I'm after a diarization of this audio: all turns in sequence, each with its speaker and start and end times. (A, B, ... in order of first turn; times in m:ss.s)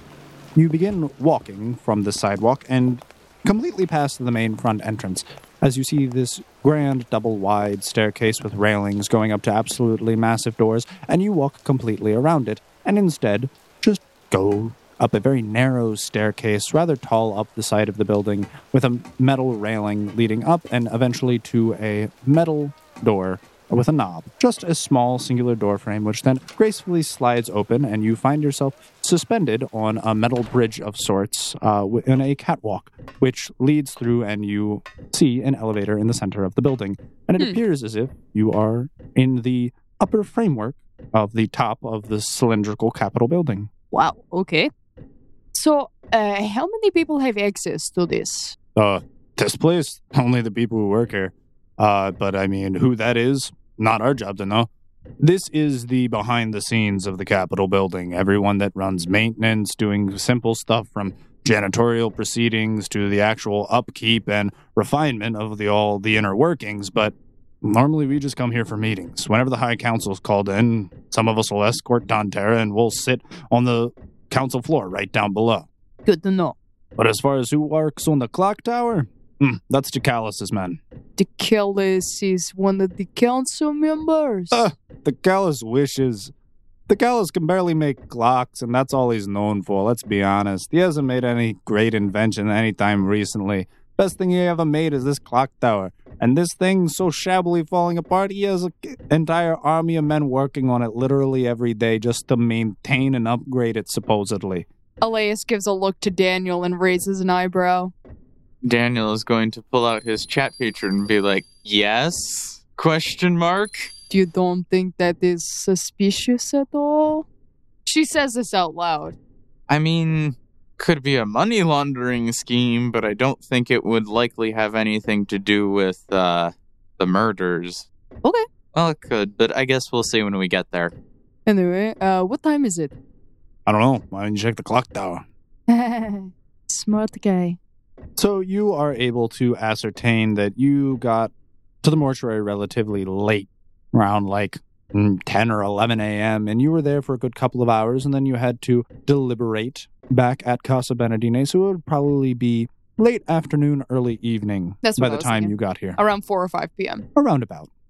0:00.5-0:43.7 A
0:43.9-0:44.7 B
0:45.5-0:48.6 B
0:48.8-0:54.7 A
0:55.2-1:15.7 A
1:16.0-1:16.5 B
1:17.0-1:20.8 A
1:21.2-1:24.6 B
1:24.5-1:26.3 A
1:26.9-1:44.7 A
1:45.0-1:47.9 B
1:48.6-1:53.9 C
1:54.1-1:57.2 B
1:57.8-1:59.2 B
1:59.7-2:07.9 C
2:08.7-2:10.9 C
2:11.4-2:13.0 B
2:13.6-2:15.2 A
2:15.7-2:17.6 B
2:18.2-2:21.3 A
2:21.8-2:36.0 A
2:34.8-2:37.0 B
2:37.2-2:37.7 A